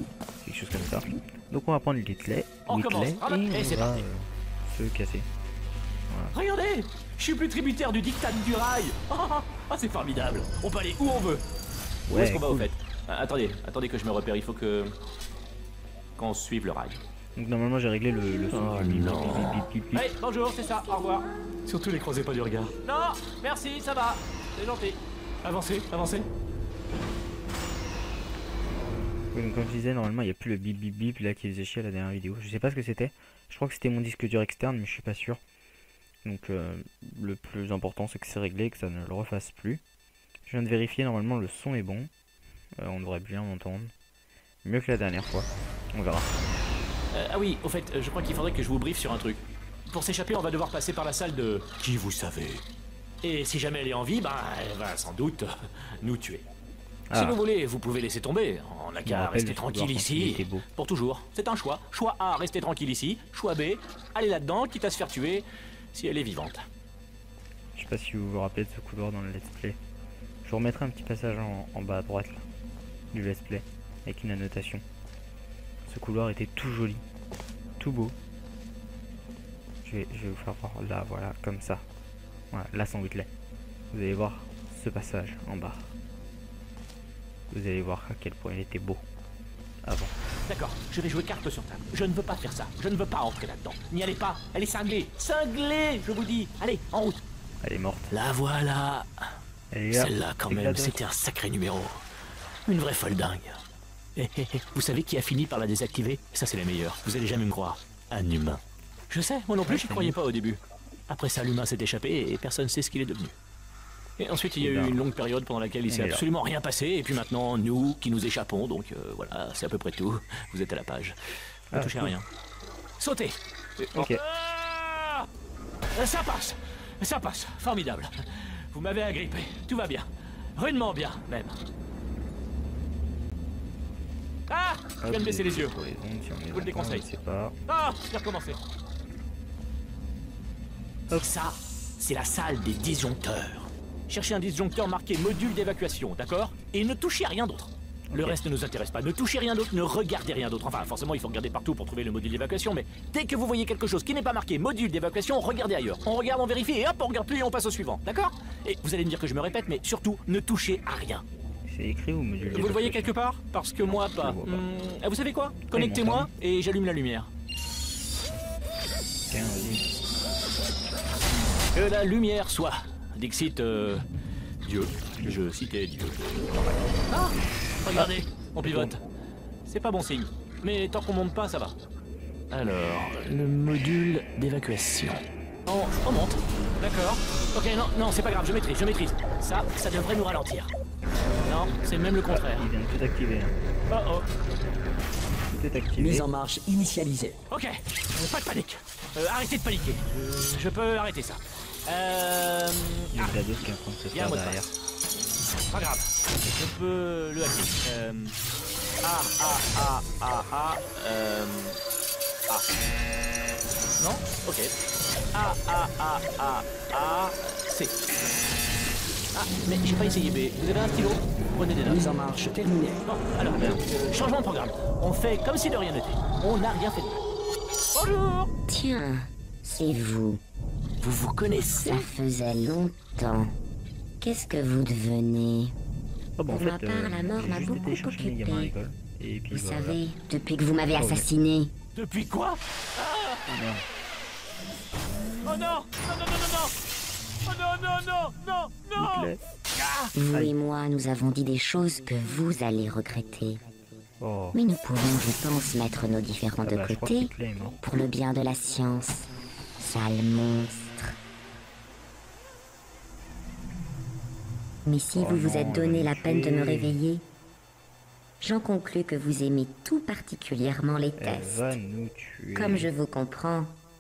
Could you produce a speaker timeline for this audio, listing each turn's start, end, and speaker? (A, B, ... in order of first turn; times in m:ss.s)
0:00.4-0:05.3 A
0:02.7-0:04.0 B
0:06.1-0:06.3 A
0:06.3-0:11.4 B
0:12.1-0:12.7 A
0:12.1-0:14.9 B
0:16.2-0:17.0 B
0:17.4-0:20.0 A
0:18.5-0:26.3 B
0:29.3-0:35.4 A
0:36.2-0:39.8 A
0:40.4-0:42.1 A
0:42.8-0:43.9 A
0:44.6-0:46.3 A
0:47.1-0:52.6 B
0:53.2-0:55.5 B
0:56.0-0:56.4 B
0:57.1-0:57.4 A
0:57.1-1:06.6 B
0:59.0-1:00.6 A
1:07.8-1:09.8 A
1:10.4-1:12.5 A
1:13.1-1:14.8 A
1:15.8-1:17.0 A
1:17.8-1:18.2 A
1:19.8-1:21.8 A
1:22.5-1:23.3 A
1:23.9-1:25.9 A
1:27.5-1:29.0 A
1:29.8-1:30.1 A
1:30.4-1:37.2 B
1:37.6-1:38.1 A
1:38.1-1:39.1 B
1:39.7-1:41.0 A
1:39.9-1:42.0 B
1:42.7-1:43.6 B
1:44.2-1:53.3 B
1:49.7-1:50.2 A
1:54.2-2:01.2 B
1:54.6-1:55.0 A
1:55.9-1:56.2 A
2:01.7-2:02.2 A
2:01.7-2:02.3 B
2:03.0-2:05.3 B
2:03.9-2:04.2 A
2:05.9-2:08.1 B
2:08.7-2:11.6 B
2:14.5-2:15.8 B
2:15.0-2:17.6 A
2:16.5-2:17.1 B
2:17.7-2:18.6 B
2:21.2-2:41.2 B
2:28.1-2:28.4 A
2:41.6-2:43.2 A
2:42.5-2:47.3 B
2:43.8-2:44.7 A
2:45.7-2:46.3 A
2:49.3-2:49.9 A
2:51.8-2:54.0 B
2:54.6-2:59.0 B
2:58.6-2:58.9 A
2:59.7-3:01.8 B
3:02.5-3:10.7 B
3:11.4-3:12.7 B
3:12.3-3:13.6 A
3:13.9-3:14.3 B
3:15.5-3:16.3 A
3:16.0-3:17.4 C
3:17.5-3:23.4 B
3:23.1-3:24.7 A
3:24.1-3:24.6 B
3:25.7-3:28.4 B
3:29.0-3:31.8 B
3:34.0-3:34.7 B
3:35.3-3:38.3 B
3:39.3-3:42.3 B
3:41.8-3:43.0 C
3:43.0-3:47.2 B
3:47.9-3:48.5 B
3:48.7-3:50.4 D
3:51.0-3:52.1 B
3:51.8-3:53.5 D
3:54.2-3:55.8 D
3:56.4-4:00.0 A
3:56.5-3:58.7 D
3:59.5-4:01.7 D
4:00.9-4:01.3 A
4:02.0-4:03.5 B
4:03.5-4:03.8 A
4:05.4-4:06.7 B
4:07.4-4:10.1 B
4:09.0-4:09.4 A
4:10.1-4:13.6 D
4:10.3-4:10.5 A
4:14.2-4:14.6 A
4:14.5-4:21.1 D
4:16.6-4:17.8 A
4:24.9-4:27.2 D
4:25.1-4:27.0 A
4:28.4-4:31.8 D
4:31.2-4:32.9 A
4:32.5-4:33.7 D